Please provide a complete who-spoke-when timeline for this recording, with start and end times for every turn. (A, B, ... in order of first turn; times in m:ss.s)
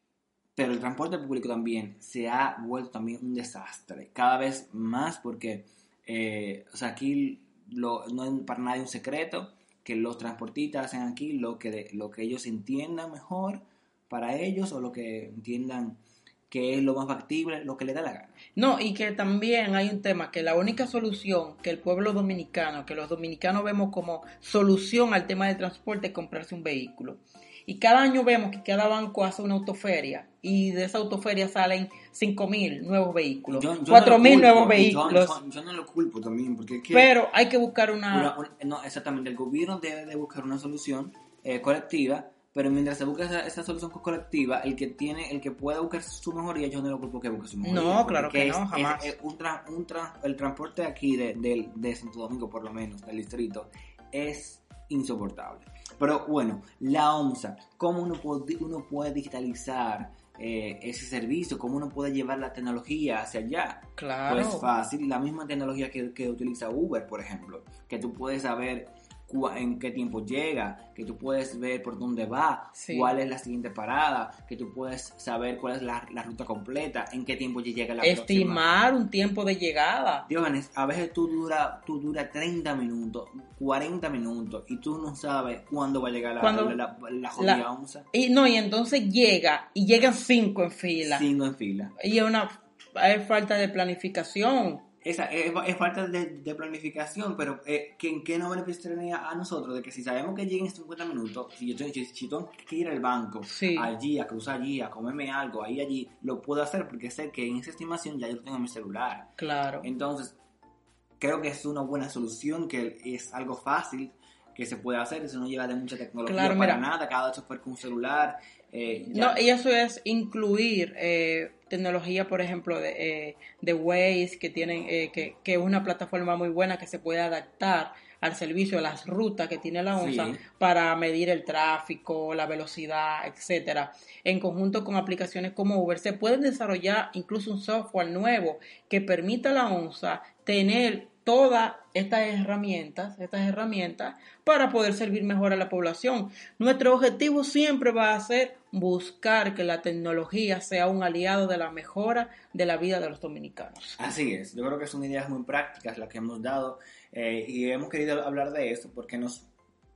0:00.6-0:18.4 A
0:18.6-0:35.4 B
0:33.5-0:37.1 A
0:36.9-0:38.3 B
0:38.1-1:18.6 A
0:47.6-0:49.1 B
1:04.0-1:04.7 B
1:12.8-1:13.1 B
1:18.0-1:20.3 B
1:20.3-1:28.1 A
1:26.4-1:26.8 B
1:27.4-1:31.3 B
1:31.0-1:31.9 A
1:32.0-1:34.8 B
1:35.0-1:50.4 A
1:43.4-1:43.9 B
1:49.4-1:49.9 B
1:51.2-1:59.4 A
1:56.2-1:56.8 B
1:59.1-2:34.0 B
2:09.9-2:10.4 A
2:34.0-2:39.5 A